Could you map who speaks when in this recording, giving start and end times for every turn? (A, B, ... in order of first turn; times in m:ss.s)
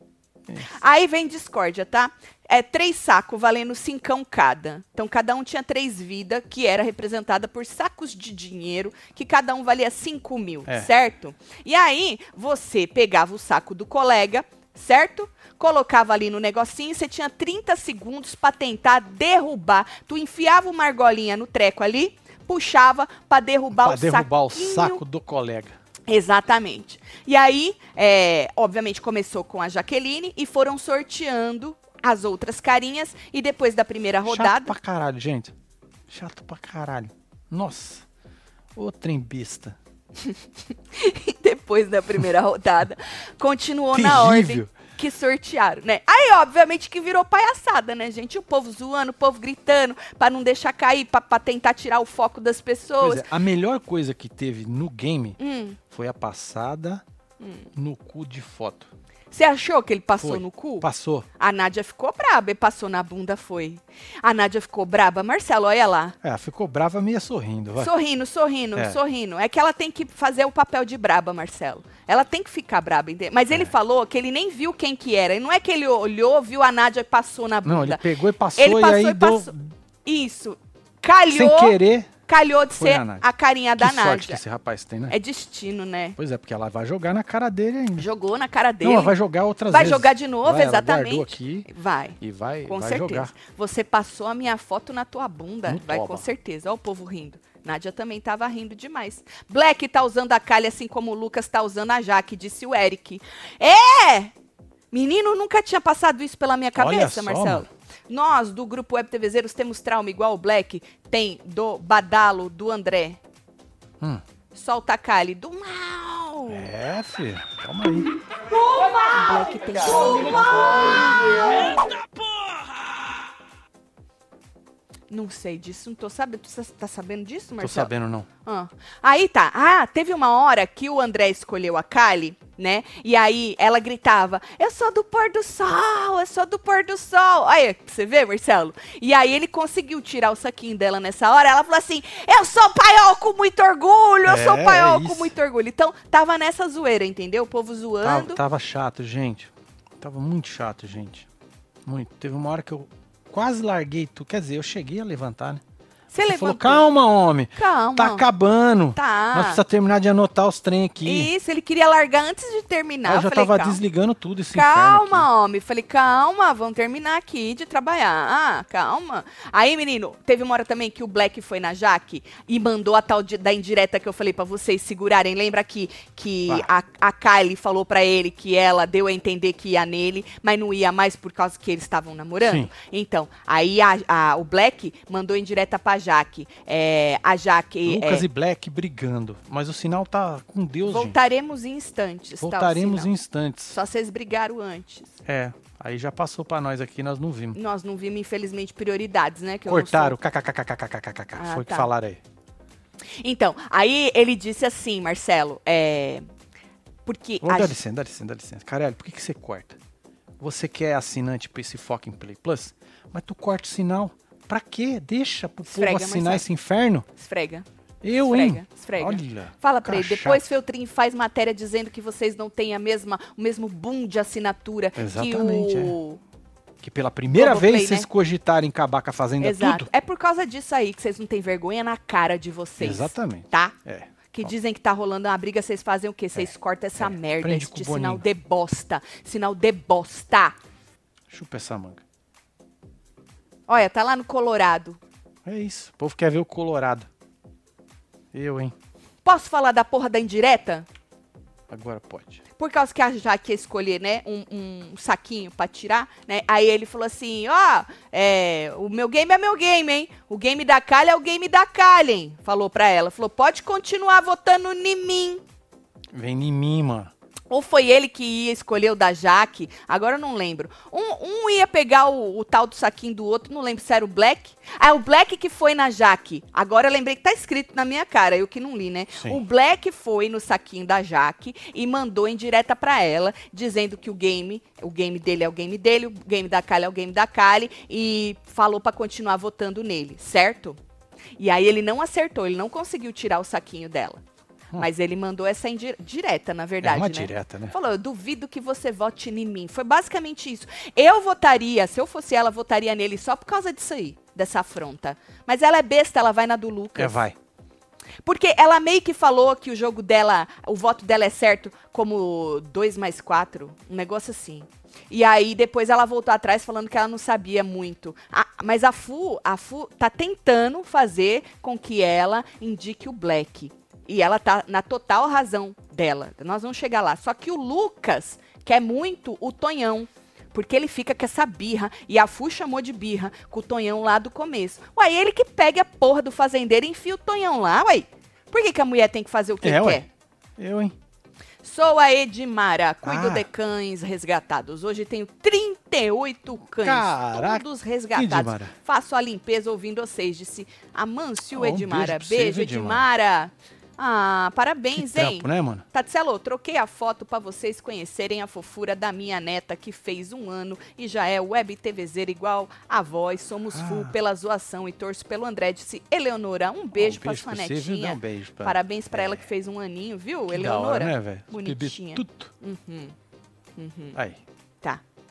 0:00.5-0:00.7 A
0:00.6-0:25.0 B
0:23.7-0:25.8 A
0:26.1-0:34.8 B
0:34.3-0:35.5 A
0:36.1-0:38.0 A
0:38.8-0:39.8 A
0:40.9-0:53.3 B
0:43.9-0:44.7 A
0:53.0-0:57.0 A
0:55.4-0:55.8 B
0:57.4-0:57.7 B
0:57.8-0:58.9 A
0:59.3-1:00.9 B
1:00.2-1:01.3 A
1:01.4-1:06.2 B
1:06.2-1:07.9 A
1:07.8-1:18.0 B
1:17.6-1:19.7 A
1:18.6-1:19.5 B
1:20.0-1:21.8 B
1:21.3-1:22.1 A
1:22.3-1:24.4 B
1:22.8-1:23.3 A
1:23.8-1:25.2 A
1:25.1-1:26.2 B
1:26.2-1:28.1 A
1:28.0-1:29.1 B
1:28.8-1:31.7 A
1:29.7-1:44.3 B
1:32.2-1:33.3 A
1:35.7-1:36.3 A
1:44.9-1:53.2 B
1:46.8-1:47.6 A
1:54.6-1:56.7 B
1:56.5-1:58.1 A
1:59.0-2:01.5 B
2:01.8-2:02.6 A
2:05.1-2:07.9 B
2:07.6-2:08.3 A
2:08.4-2:28.4 B
2:24.3-2:25.3 A
2:28.0-2:31.3 A
2:31.8-2:35.6 A
2:36.1-2:36.9 B
2:36.2-2:41.3 A
2:37.6-2:38.2 B
2:39.0-2:39.6 B
2:41.0-2:43.8 B
2:43.0-2:45.3 A
2:44.5-3:08.3 B
3:02.4-3:02.7 A
3:07.9-3:11.2 A
3:10.8-3:13.1 B
3:12.4-3:13.8 A
3:13.7-3:15.2 B
3:15.3-3:17.6 A
3:17.5-3:20.2 B
3:19.7-3:22.2 A
3:21.4-3:21.9 B
3:23.2-3:26.2 B
3:27.1-3:27.8 B
3:27.4-3:29.8 A
3:30.4-3:37.1 A
3:35.6-3:36.4 B
3:37.2-3:37.7 B
3:38.0-3:40.4 A
3:38.3-3:46.2 B
3:45.0-3:46.0 A
3:46.8-3:49.9 A
3:47.3-3:48.1 B
3:49.4-3:53.8 B
3:52.8-3:54.5 A
3:54.3-4:00.6 B
3:57.0-3:58.2 A
4:01.3-4:02.0 A
4:03.7-4:05.0 B
4:05.4-4:07.1 A
4:08.3-4:08.7 A
4:09.2-4:10.9 B
4:11.7-4:12.4 A
4:12.6-4:25.4 B
4:26.1-4:27.1 A
4:27.5-4:50.8 B
4:51.4-4:54.2 B
4:54.8-5:07.2 B
4:56.8-4:57.8 A
5:07.0-5:07.4 A
5:08.2-5:40.1 B
5:39.6-5:41.0 A
5:41.6-6:13.2 B
5:43.0-5:43.5 A
5:46.8-5:48.7 A
5:51.5-5:53.1 A
5:55.0-5:55.8 A
6:03.7-6:04.1 A
6:06.9-6:09.4 A
6:10.5-6:12.5 A
6:13.8-6:14.2 B
6:14.2-6:14.4 A